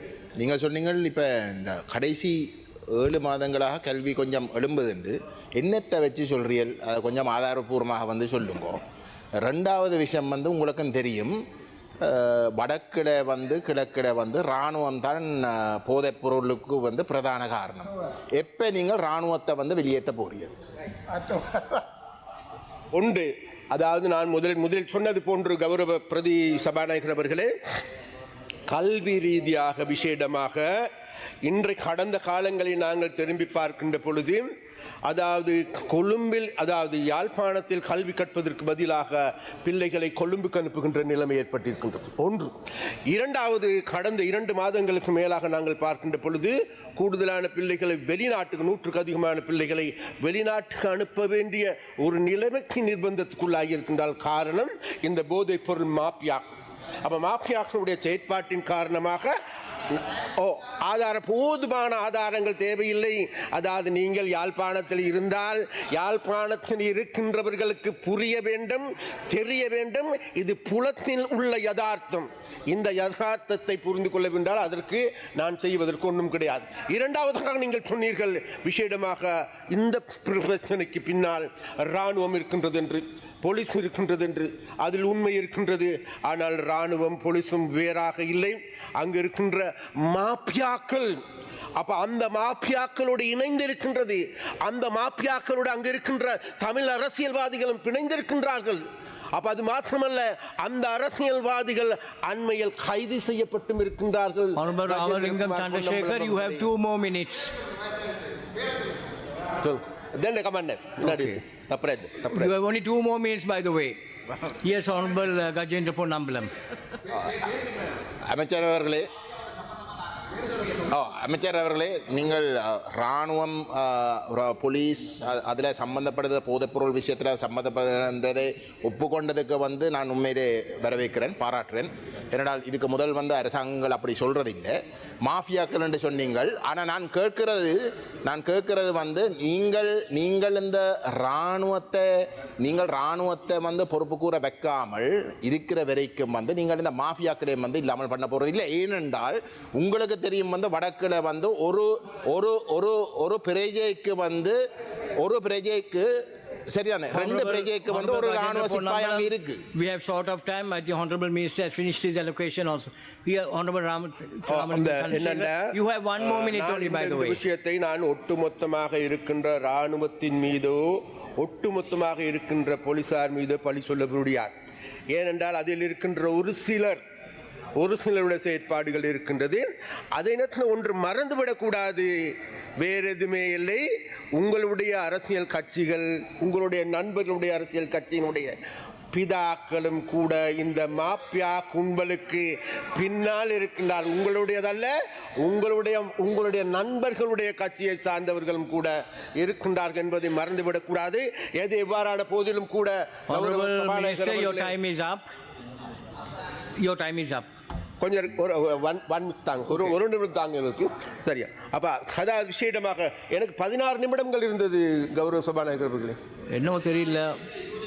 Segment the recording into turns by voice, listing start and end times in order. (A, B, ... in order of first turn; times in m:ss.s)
0:00.4-0:02.4 A
0:02.9-0:08.8 A
0:09.4-0:11.4 A
0:12.0-0:20.5 A
0:22.9-0:27.5 B
0:28.7-0:30.7 B
0:31.4-0:34.4 B
0:35.0-0:42.5 B
0:43.1-0:56.5 B
0:57.0-0:59.3 B
1:00.0-1:31.2 B
1:31.8-1:38.8 B
1:39.3-1:46.7 B
1:44.6-1:47.5 C
1:49.6-1:52.5 B
1:51.0-1:51.4 C
1:52.3-1:56.5 C
1:57.1-1:57.4 A
1:58.3-1:59.0 A
2:00.9-2:14.7 A
2:15.2-2:22.0 A
2:22.6-2:34.5 A
2:35.2-2:36.1 A
2:36.7-2:39.6 A
2:37.1-2:47.4 C
2:44.5-2:54.5 B
2:55.1-2:57.0 B
2:57.8-3:03.8 B
3:04.4-3:08.5 B
3:09.1-3:24.8 B
3:23.3-3:25.2 C
3:26.8-3:27.5 C
3:28.0-3:36.2 B
3:36.5-3:37.3 C